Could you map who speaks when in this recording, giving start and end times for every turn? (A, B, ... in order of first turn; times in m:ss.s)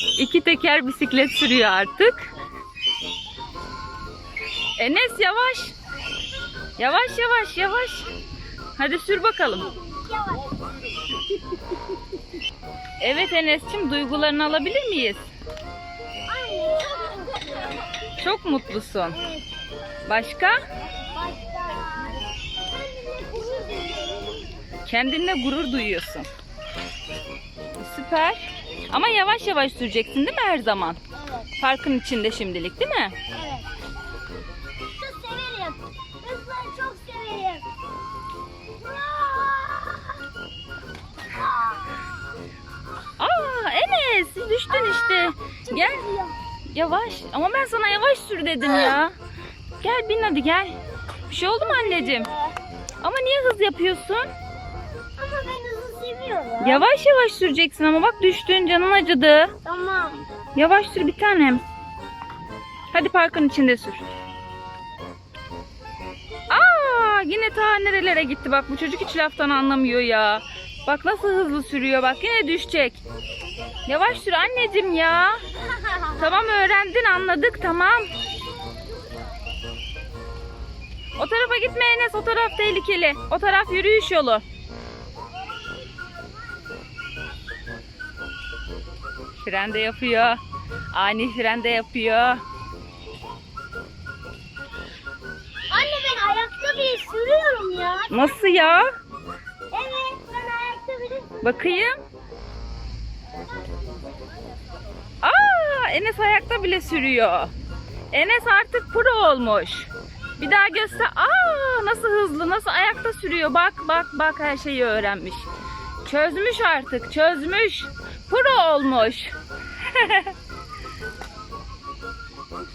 0:00.2-0:02.3 A
0:04.8-0:05.7 A
0:06.8-0:08.1 A
0:08.8-0:09.7 A
0:09.6-0:10.6 B
0:13.0-0:15.3 A
0:16.3-0:17.8 B
0:18.2-0:19.2 A
0:19.1-0:19.4 B
0:20.1-0:20.6 A
0:21.1-0:24.6 B
0:24.8-0:26.3 A
0:27.8-0:31.0 A
0:31.2-0:31.5 B
0:31.6-0:33.2 A
0:33.3-0:33.7 B
0:35.0-0:37.6 B
0:38.8-0:40.2 B
0:41.4-0:41.8 B
0:43.2-0:46.0 A
0:44.7-0:46.4 B
0:46.7-0:49.2 A
0:49.8-0:50.8 A
0:51.3-0:52.3 A
0:51.6-0:52.5 B
0:53.0-0:54.3 A
0:55.2-0:56.9 B
0:56.6-0:59.5 A
0:59.6-1:00.3 B
1:00.6-1:01.6 A
1:02.9-1:04.1 A
1:06.5-1:13.0 A
1:13.9-1:15.4 A
1:16.1-1:18.1 A
1:21.2-1:24.4 A
1:29.4-1:30.4 A
1:30.9-1:32.4 A
1:35.7-1:38.1 B
1:38.1-1:38.9 A
1:39.7-1:41.7 B
1:41.4-1:42.0 A
1:45.2-1:47.5 A
1:48.1-1:55.5 A
1:56.0-1:59.3 A
1:59.9-2:00.3 A